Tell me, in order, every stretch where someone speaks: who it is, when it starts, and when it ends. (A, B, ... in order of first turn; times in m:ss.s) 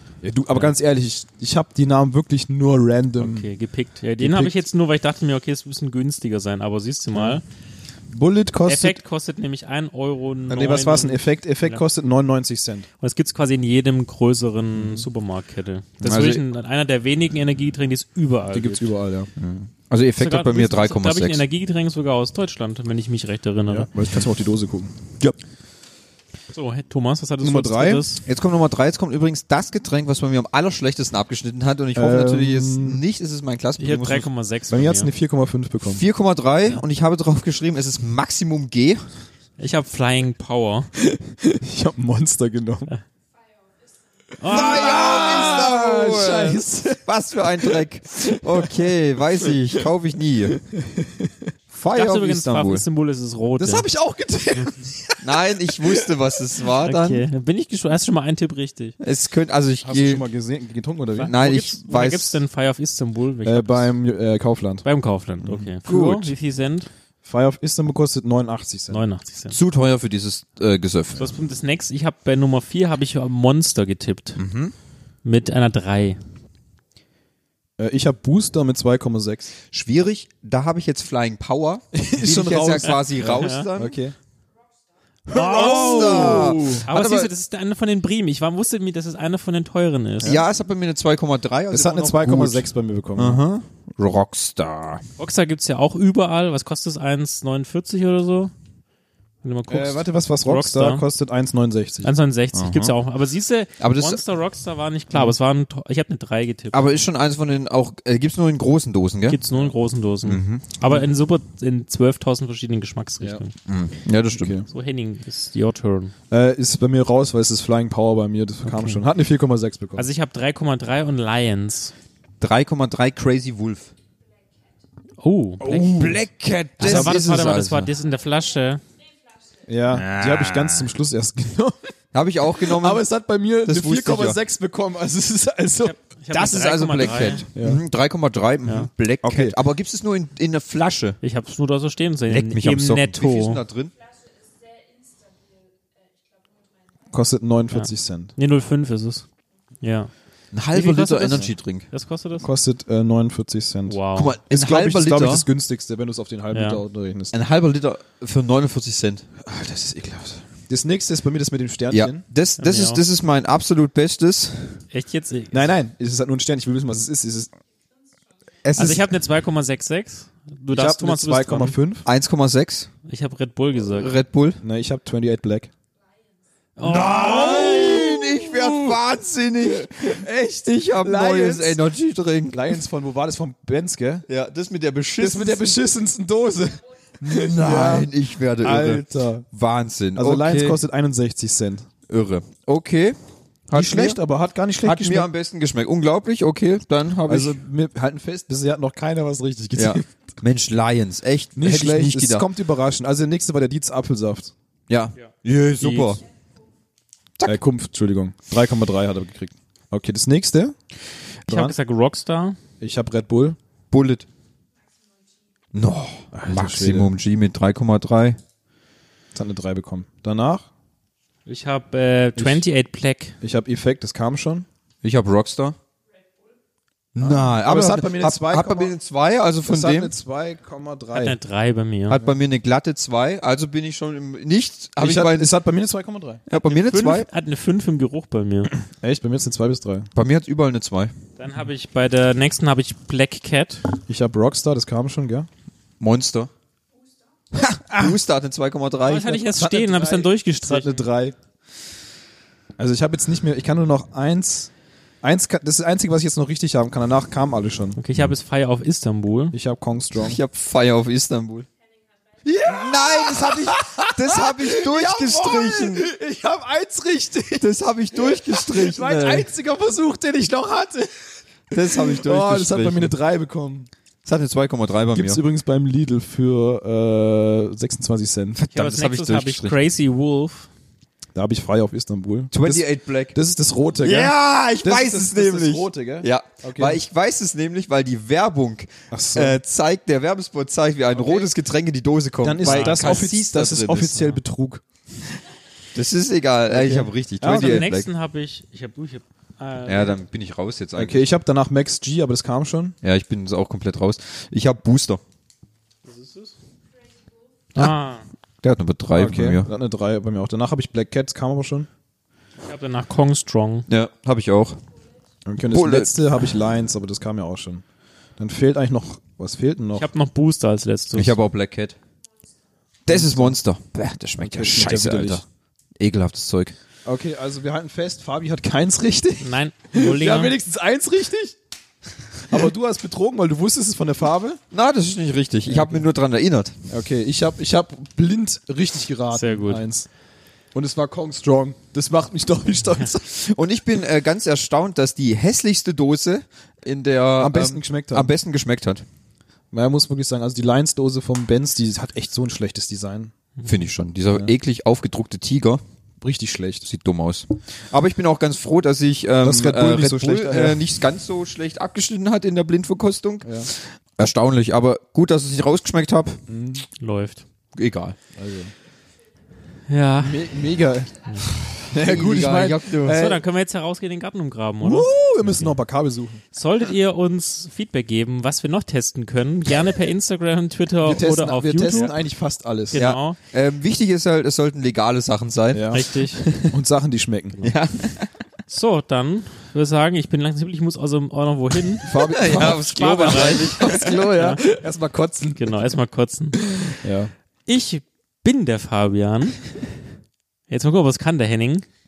0:00.2-0:03.5 A
0:03.2-0:07.4 B
0:04.2-0:04.6 A
0:07.1-0:07.4 A
0:08.1-0:09.0 A
0:08.6-0:11.8 B
0:10.5-0:12.9 A
0:13.0-0:18.9 B
0:16.0-0:16.4 C
0:18.5-0:19.3 A
0:19.4-0:21.4 C
0:20.2-0:23.9 B
0:23.7-0:25.0 A
0:26.5-0:28.2 B
0:27.4-0:28.0 A
0:28.2-0:34.3 C
0:31.9-0:33.0 A
0:33.8-0:35.1 B
0:34.7-0:36.0 A
0:35.9-0:39.0 C
0:39.6-0:40.9 B
0:41.0-0:42.9 A
0:44.4-0:45.2 B
0:44.4-0:47.0 A
0:44.5-0:50.6 C
0:50.6-0:51.4 A
0:51.7-0:52.8 C
0:51.9-0:53.9 B
0:53.6-0:56.1 A
0:55.2-0:57.2 C
0:56.8-0:59.0 B
0:59.0-1:00.2 C
0:59.8-1:01.3 A
1:01.2-1:03.9 B
1:01.3-1:02.4 C
1:03.4-1:04.8 A
1:04.8-1:06.9 B
1:05.4-1:05.7 A
1:05.8-1:06.3 C
1:07.2-1:09.0 A
1:08.9-1:09.6 B
1:09.5-1:11.3 C
1:11.2-1:14.4 B
1:14.4-1:14.7 C
1:15.2-1:16.2 B
1:17.8-1:19.5 A
1:19.7-1:24.0 C
1:21.9-1:24.1 A
1:23.2-1:23.7 B
1:25.3-1:26.8 A
1:25.3-1:27.3 C
1:25.3-1:30.4 B
1:30.2-1:35.0 C
1:31.7-1:33.4 A
1:35.2-1:38.5 B
1:39.4-1:41.0 B
1:39.7-1:42.1 A
1:42.0-1:47.0 B
1:42.5-1:42.9 C
1:43.8-1:44.2 C
1:46.7-1:49.4 C
1:49.3-1:53.5 B
1:50.2-1:50.8 C
1:53.6-1:54.6 C
1:54.3-1:54.7 A
1:54.7-1:56.1 B
1:56.3-2:00.1 A
1:58.6-1:59.0 B
2:00.0-2:01.9 B
2:02.4-2:03.9 C
2:05.2-2:06.2 B
2:05.6-2:06.2 A
2:05.8-2:07.9 C
2:06.8-2:07.2 A
2:06.8-2:08.8 B
2:09.7-2:11.9 A
2:09.9-2:10.9 C
2:12.1-2:13.0 C
2:12.5-2:15.9 A
2:13.6-2:14.4 C
2:15.8-2:17.4 B
2:16.3-2:21.2 C
2:17.5-2:17.8 A
2:19.2-2:19.6 A
2:21.2-2:23.6 B
2:22.3-2:23.9 C
2:27.1-2:28.3 A
2:27.7-2:29.2 B
2:29.8-2:30.1 B
2:30.5-2:31.8 C
2:30.7-2:32.4 B
2:32.4-2:37.4 A
2:33.9-2:34.4 B
2:34.1-2:35.5 C
2:36.5-2:36.8 B
2:37.3-2:39.2 C
2:39.4-2:42.2 A
2:41.9-2:44.8 C
2:42.6-2:43.0 B
2:44.9-2:45.7 B
2:45.5-2:47.5 A
2:48.6-2:49.1 C
2:48.8-2:51.8 B
2:50.7-2:52.0 A
2:52.0-2:52.9 C
2:53.1-2:54.2 B
2:53.9-2:54.6 C
2:54.6-2:55.7 A
2:56.8-2:58.2 B
2:56.8-3:02.7 C
2:57.1-2:58.7 A
2:59.8-3:01.8 A
3:02.5-3:04.2 A
3:04.3-3:05.8 C
3:05.2-3:09.4 A
3:07.2-3:10.8 C
3:10.2-3:11.9 A
3:12.1-3:13.2 C
3:13.7-3:14.2 C
3:13.7-3:15.3 A
3:14.8-3:17.6 C
3:17.3-3:20.1 A
3:19.7-3:22.5 C
3:21.6-3:24.5 A
3:24.9-3:26.2 C
3:25.2-3:26.2 B
3:27.4-3:30.8 A
3:31.4-3:32.6 B
3:31.5-3:31.7 A
3:32.8-3:33.6 A
3:33.9-3:34.3 C
3:35.7-3:38.4 C
3:36.3-3:37.1 A
3:39.3-3:40.7 A
3:41.4-3:43.4 B
3:42.4-3:42.6 A
3:43.4-3:44.7 A
3:45.0-3:45.8 C
3:47.1-3:50.1 C
3:47.2-3:49.0 A
3:49.7-3:51.4 A
3:51.1-3:52.2 B
3:52.1-3:55.5 C
3:55.0-3:56.4 A
3:56.5-3:57.3 C
3:56.6-3:58.7 B
3:59.0-4:00.1 A
4:00.1-4:01.1 C
4:01.4-4:03.8 B
4:04.1-4:05.5 A
4:06.0-4:06.5 C
4:07.5-4:09.4 C
4:07.8-4:08.2 A
4:09.0-4:11.1 B
4:09.4-4:11.4 A
4:12.8-4:14.7 A
4:15.2-4:18.0 A
4:18.0-4:19.5 B
4:19.5-4:20.4 A
4:20.2-4:21.7 C
4:22.4-4:31.1 A
4:22.6-4:26.1 C
4:27.6-4:29.5 C
4:31.7-4:33.1 C
4:31.7-4:33.9 A
4:34.2-4:35.4 C
4:35.1-4:38.6 A
4:38.6-4:39.8 C
4:38.7-4:40.7 B
4:41.3-4:47.0 A
4:42.5-4:43.4 C
4:44.0-4:54.4 C
4:49.1-4:49.6 A
4:52.4-4:54.8 A
4:52.6-4:53.3 B
4:55.9-4:58.1 C
4:56.7-4:57.9 A
4:57.4-5:00.2 B
4:59.8-5:01.2 C
5:00.9-5:03.0 A
5:03.0-5:05.2 C
5:06.0-5:06.6 B
5:07.7-5:08.3 B
5:08.6-5:09.7 C
5:09.1-5:11.9 A
5:12.6-5:13.9 B
5:13.9-5:14.8 C
5:15.4-5:17.8 A
5:15.7-5:16.1 C
5:18.4-5:20.1 A
5:19.9-5:21.3 B
5:21.1-5:22.0 C
5:23.0-5:25.4 C
5:23.1-5:23.6 A
5:24.4-5:25.4 A
5:26.0-5:26.8 C
5:27.0-5:31.6 A
5:29.4-5:30.6 B
5:32.4-5:34.6 A
5:34.7-5:36.8 C
5:35.7-5:36.0 A
5:36.9-5:40.1 A
5:39.3-5:39.8 B
5:40.7-5:43.2 A
5:43.2-5:49.0 C
5:47.4-5:48.3 A
5:49.7-5:53.3 A
5:53.6-5:55.8 C
5:56.2-5:56.8 A
5:56.8-6:06.4 C
5:59.4-6:00.8 A
6:03.4-6:03.7 A
6:06.5-6:06.8 A
6:07.0-6:07.4 B
6:07.7-6:08.2 C
6:08.3-6:08.7 A
6:09.9-6:10.5 B
6:10.2-6:13.4 A
6:11.9-6:13.3 C
6:13.0-6:15.8 B
6:14.8-6:16.4 A
6:16.5-6:22.1 B
6:21.0-6:23.0 A
6:22.9-6:23.4 B
6:22.9-6:26.7 C
6:25.7-6:26.0 A
6:25.9-6:26.4 B
6:26.6-6:27.7 A
6:27.6-6:28.3 C
6:28.7-6:34.6 B
6:32.0-6:32.8 A
6:32.0-6:34.2 C
6:33.4-6:35.8 A
6:35.6-6:36.6 B
6:37.0-6:37.3 A
6:37.7-6:39.8 B
6:40.7-6:41.8 B